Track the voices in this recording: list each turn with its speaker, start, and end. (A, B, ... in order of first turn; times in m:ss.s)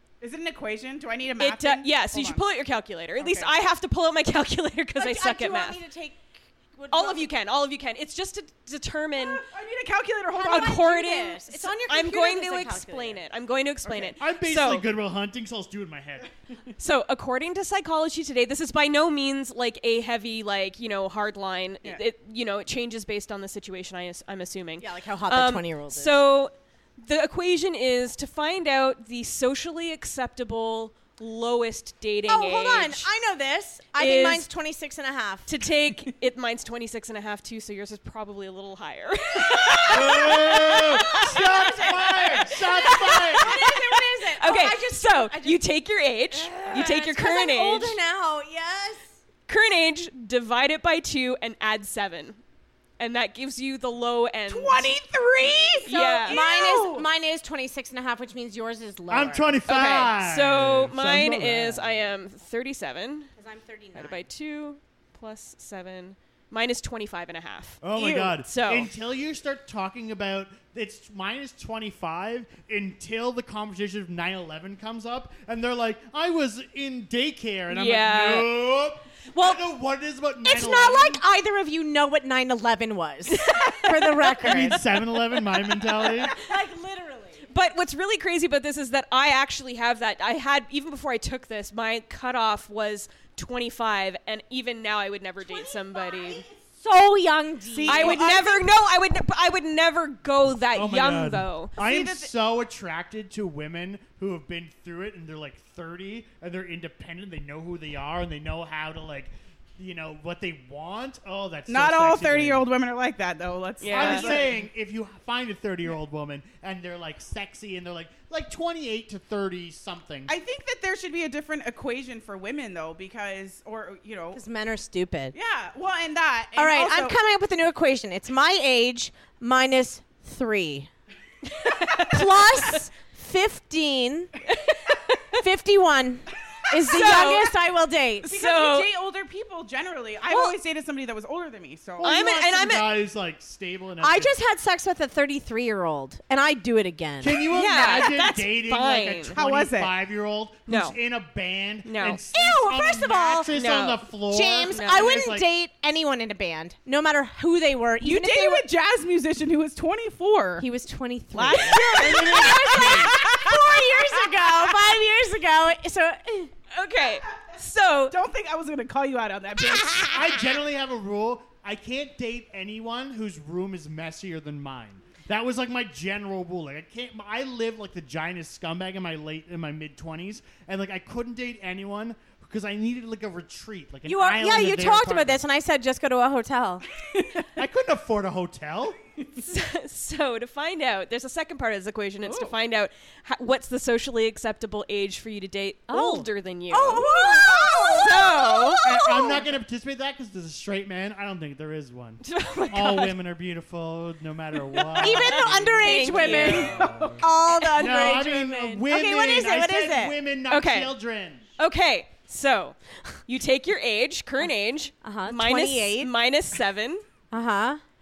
0:00.2-0:02.4 A
0:01.4-0:05.8 B
0:03.2-0:03.5 A
0:05.0-0:07.3 C
0:06.9-0:09.4 B
0:09.3-0:10.9 A
0:10.3-0:13.2 C
0:10.5-0:14.9 B
0:14.2-0:16.4 D
0:16.8-0:33.1 B
0:24.8-0:26.2 C
0:32.3-0:35.5 C
0:34.0-0:34.5 B
0:35.5-0:41.2 B
0:39.9-0:43.6 D
0:40.3-0:45.6 C
0:42.6-0:48.0 B
0:46.3-0:49.1 C
0:49.5-0:52.4 B
0:53.0-0:54.9 B
0:54.5-0:57.1 A
0:55.9-0:56.4 B
0:55.9-0:59.6 C
0:59.1-1:02.1 D
0:59.7-1:03.3 B
1:03.4-1:04.3 C
1:04.0-1:08.9 B
1:07.8-1:21.2 D
1:17.7-1:18.5 B
1:19.4-1:19.6 C
1:20.4-1:24.8 C
1:23.4-1:24.7 B
1:24.4-1:26.4 D
1:26.3-1:27.4 C
1:27.5-1:36.4 B
1:35.5-1:38.6 C
1:37.7-1:38.5 A
1:37.9-1:41.8 B
1:40.7-1:52.7 D
1:41.8-1:42.3 A
1:51.7-1:54.6 A
1:53.8-1:54.4 B
1:53.9-2:00.3 D
2:00.3-2:04.4 A
2:04.4-2:05.4 C
2:05.3-2:07.2 A
2:06.6-2:10.9 C
2:11.6-2:12.1 B
2:12.0-2:14.3 C
2:14.5-2:15.4 B
2:15.4-2:18.3 C
2:16.9-2:17.5 B
2:18.2-2:22.1 A
2:18.3-2:18.9 B
2:22.0-2:24.3 D
2:22.0-2:22.9 B
2:24.0-2:27.5 C
2:27.2-2:35.5 D
2:27.5-2:29.4 B
2:29.3-2:29.9 A
2:30.7-2:31.0 B
2:31.8-2:32.2 B
2:32.3-2:33.5 C
2:33.5-2:34.1 B
2:34.3-2:38.7 C
2:34.7-2:35.2 B
2:38.0-2:40.7 A
2:40.6-2:46.5 C
2:41.4-2:43.0 A
2:41.4-2:42.0 B
2:42.0-2:43.1 D
2:46.7-2:48.2 B
2:48.1-2:50.1 A
2:50.1-3:05.4 D
3:04.1-3:06.8 C
3:07.1-3:07.5 A
3:07.6-3:09.0 D
3:09.4-3:18.8 B
3:12.3-3:12.5 A
3:15.9-3:19.4 C
3:17.2-3:18.0 A
3:18.8-3:31.5 D
3:22.2-3:23.2 B
3:25.0-3:30.2 C
3:25.0-3:26.8 B
3:26.4-3:27.2 A
3:30.5-3:31.0 B
3:31.6-3:37.0 B
3:35.0-3:36.1 C
3:37.3-3:37.8 C